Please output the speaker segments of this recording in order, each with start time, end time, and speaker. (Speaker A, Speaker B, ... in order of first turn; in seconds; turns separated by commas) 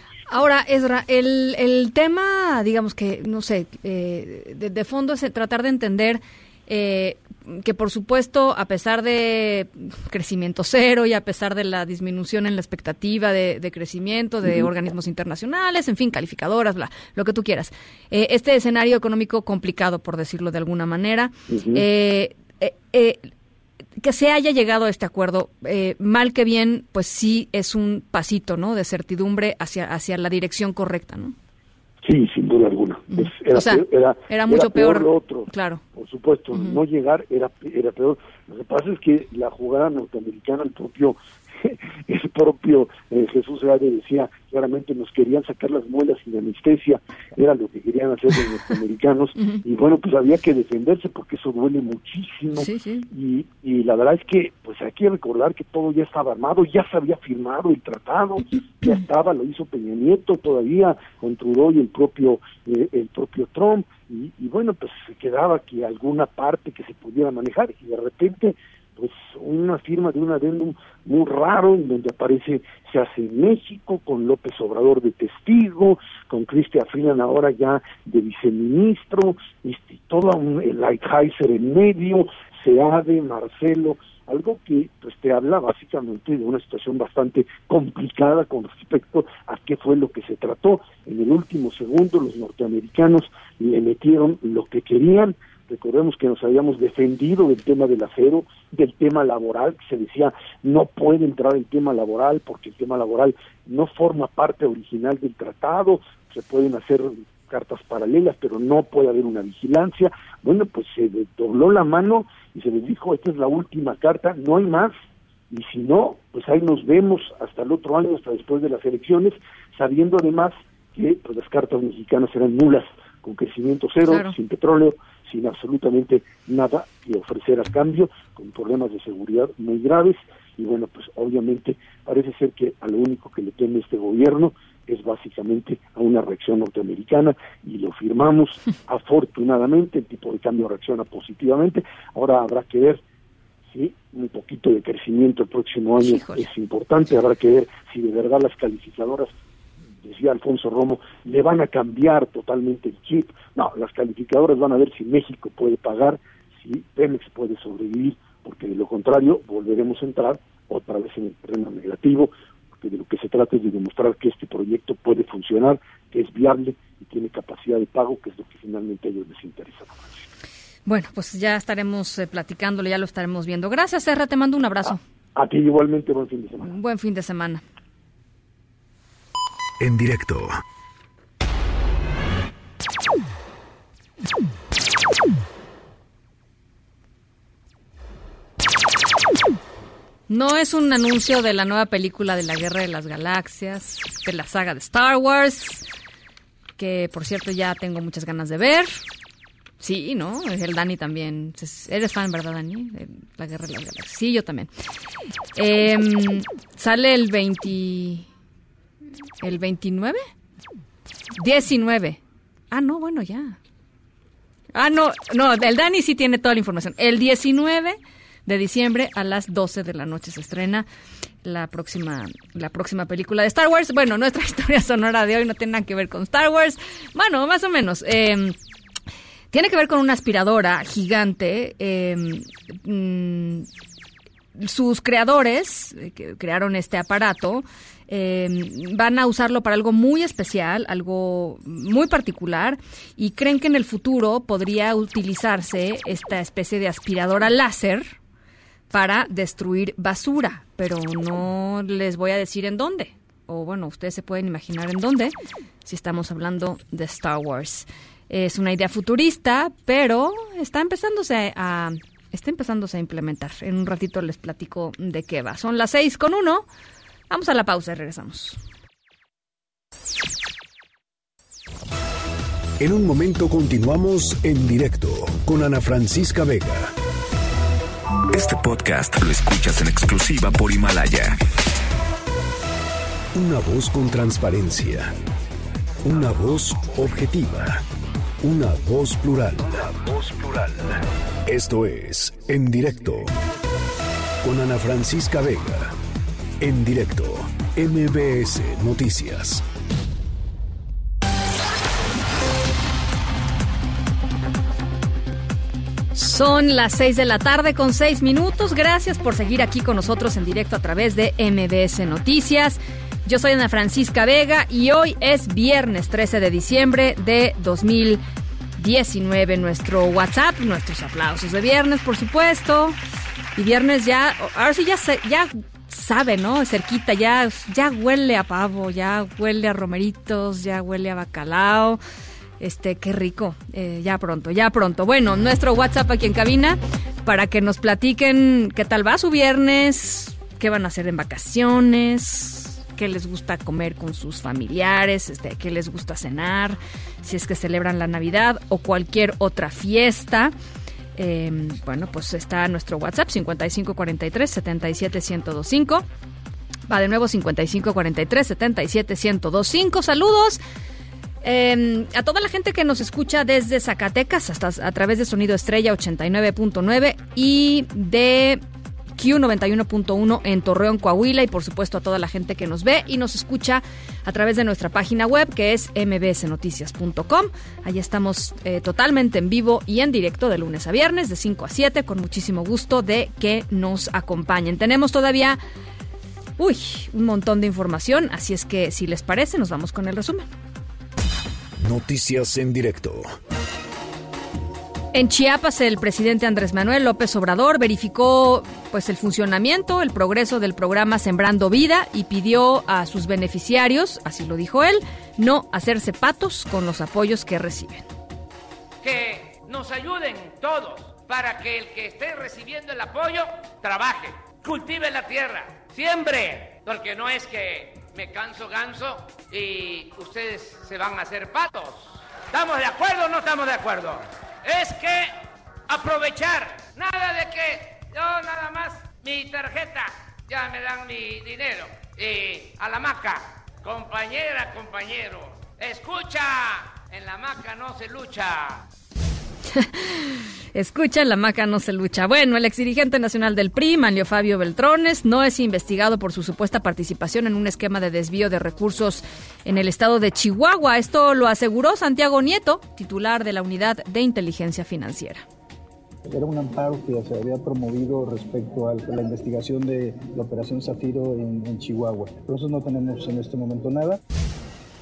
Speaker A: 0.3-23.3, Speaker B: 14.4-14.7, Speaker B: 21.5-21.9, Speaker A: 24.0-31.3, Speaker B: 32.0-115.0, Speaker A: 33.1-35.8, Speaker A: 52.5-53.1, Speaker B: 115.5-143.0, Speaker A: 124.1-124.3, Speaker B: 143.7-149.3, Speaker A: 146.0-146.5, Speaker B: 150.0-170.2, Speaker A: 170.8-175.0, Speaker B: 175.3-176.7, Speaker A: 176.6-177.6, Speaker C: 179.8-180.6, Speaker A: 190.3-195.8, Speaker A: 196.8-199.0, Speaker A: 199.8-204.7, Speaker A: 205.6-208.3, Speaker A: 209.4-210.2, Speaker A: 211.4-212.2, Speaker A: 212.7-213.6, Speaker A: 214.7-220.8, Speaker A: 221.4-228.6, Speaker A: 229.5-233.7, Speaker A: 234.6-248.1, Speaker A: 248.9-255.3, Speaker A: 255.8-266.6, Speaker A: 267.3-268.6, Speaker C: 272.8-276.9, Speaker D: 278.3-281.4, Speaker C: 283.3-285.1, Speaker C: 286.0-287.8, Speaker C: 288.4-293.3, Speaker C: 294.4-295.9, Speaker C: 296.6-299.6, Speaker A: 306.1-318.2, Speaker A: 318.8-322.9, Speaker A: 323.6-332.0, Speaker A: 332.6-350.5, Speaker A: 351.1-356.0, Speaker A: 356.9-360.6, Speaker A: 361.4-368.6, Speaker A: 369.2-385.6, Speaker A: 386.6-390.5, Speaker C: 391.8-393.3, Speaker A: 395.1-408.1, Speaker E: 409.0-425.3, Speaker E: 425.9-438.8, Speaker A: 439.7-455.4, Speaker F: 456.3-464.2